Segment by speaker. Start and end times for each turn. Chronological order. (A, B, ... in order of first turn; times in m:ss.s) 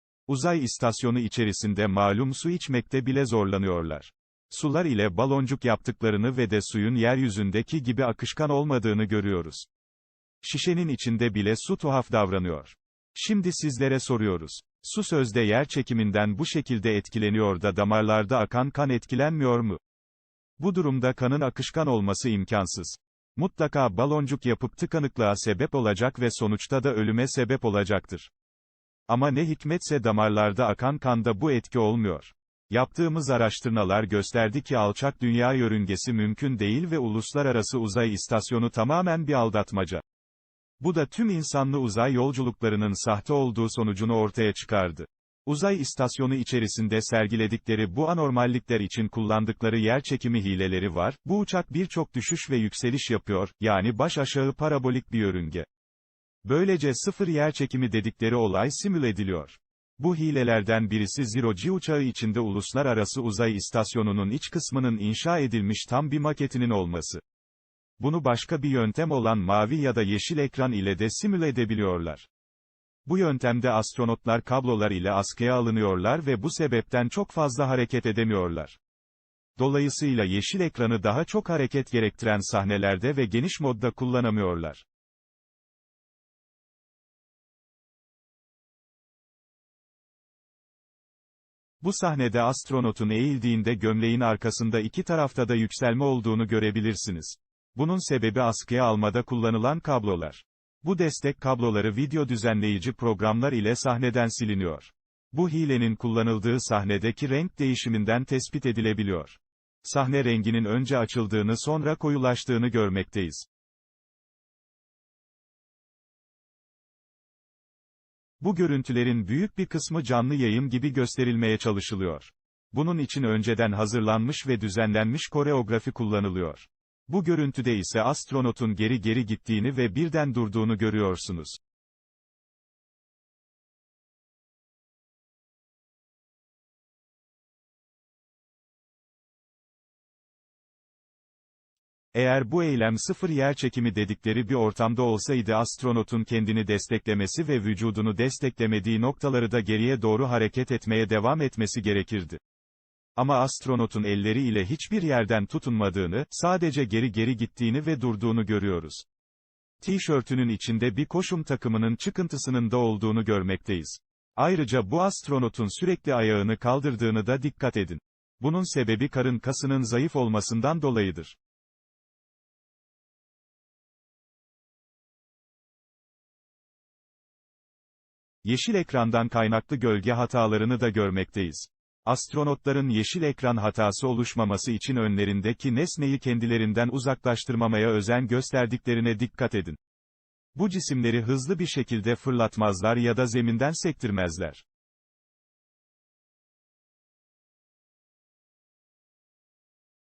0:00.3-0:09.7 A
0:10.4-0:19.8 A
0:20.6-0:28.3 A
0:29.1-0:40.0 A
0:40.8-0:55.7 A
0:56.4-1:07.2 A
1:08.0-1:12.3 A
1:13.0-1:18.8 A
1:19.6-1:24.8 A
1:31.8-1:53.5 A
1:58.4-2:11.6 A
2:22.1-2:32.4 A
2:33.2-2:39.0 A
2:39.8-2:51.4 A
2:58.4-3:09.8 A
3:10.5-3:14.6 A